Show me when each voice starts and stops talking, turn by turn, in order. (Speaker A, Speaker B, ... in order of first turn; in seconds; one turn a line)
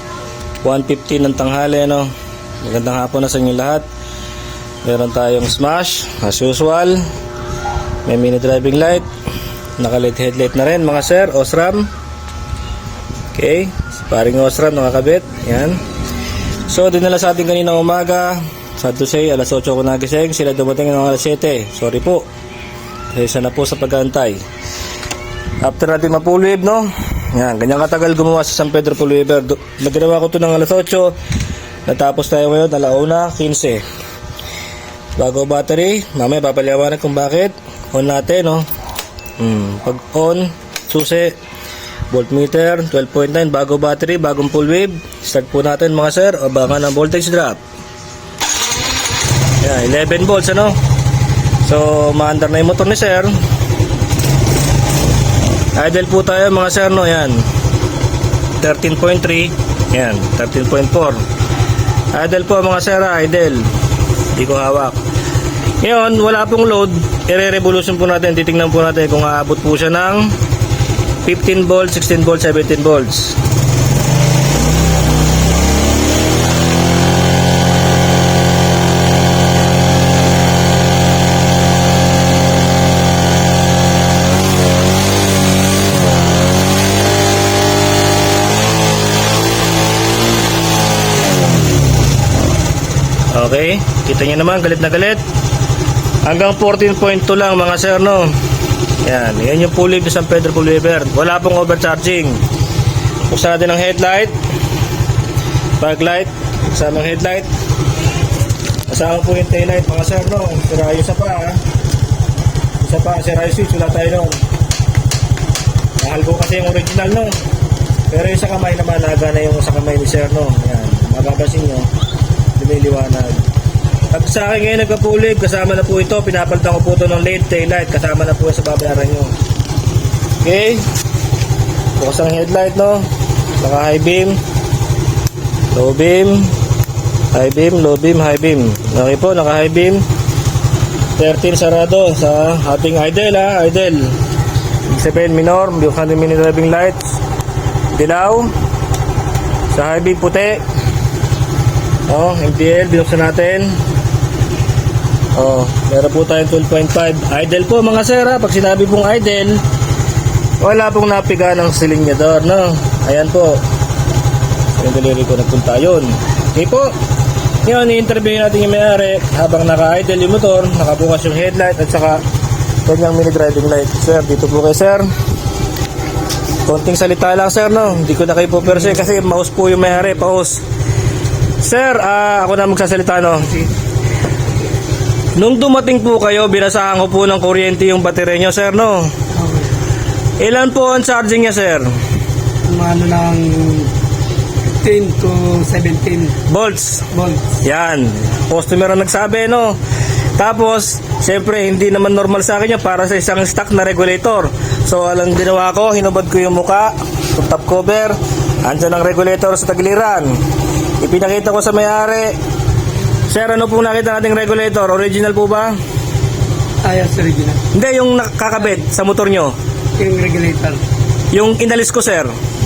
Speaker A: 0.6-3.9
Speaker A: 4.8-7.1
Speaker A: 8.1-9.1
Speaker A: 9.8-11.9
Speaker A: 13.3-15.8
Speaker A: 16.7-22.3
Speaker A: 23.1-24.4
Speaker A: 25.6-31.2
Speaker A: 31.9-33.8
Speaker A: 35.2-38.7
Speaker A: 39.4-41.4
Speaker A: 42.1-47.6
Speaker A: 49.6-50.8
Speaker A: 51.6-53.3
Speaker A: 55.8-57.4
Speaker A: 58.6-61.2
Speaker A: 62.1-63.7
Speaker A: 64.3-65.0
Speaker A: 65.8-70.4
Speaker A: 71.2-73.4
Speaker A: 93.3-95.2
Speaker A: 96.2-98.3
Speaker A: 99.0-102.4
Speaker A: 103.3-104.3
Speaker A: 105.8-107.5
Speaker A: 108.9-111.6
Speaker A: 112.8-114.4
Speaker A: 116.0-117.4
Speaker A: 118.1-121.9
Speaker A: 122.6-123.5
Speaker A: 124.1-129.3
Speaker A: 130.4-130.9
Speaker A: 132.0-133.1
Speaker A: 133.6-134.4
Speaker A: 135.7-136.5
Speaker A: 137.3-140.0
Speaker A: 141.2-144.2
Speaker A: 144.9-147.2
Speaker A: 147.9-148.5
Speaker A: 149.7-150.6
Speaker A: 152.1-153.8
Speaker A: 155.3-159.6
Speaker A: 160.6-163.6
Speaker A: 164.8-166.9
Speaker A: 167.6-172.2
Speaker A: 172.9-175.1
Speaker A: 176.7-180.6
Speaker A: 181.6-183.7
Speaker A: 185.4-189.1
Speaker B: 189.3-189.7
Speaker A: 190.4-191.9
Speaker B: 192.7-193.9
Speaker B: 194.8-196.4
Speaker A: 196.5-197.1
Speaker B: 197.1-197.6
Speaker A: 197.6-199.8
Speaker A: 200.4-210.4
Speaker A: 211.0-212.4
Speaker A: 213.3-215.8
Speaker B: 216.8-217.6
Speaker A: 217.7-219.5
Speaker B: 220.0-220.8
Speaker A: 221.3-222.3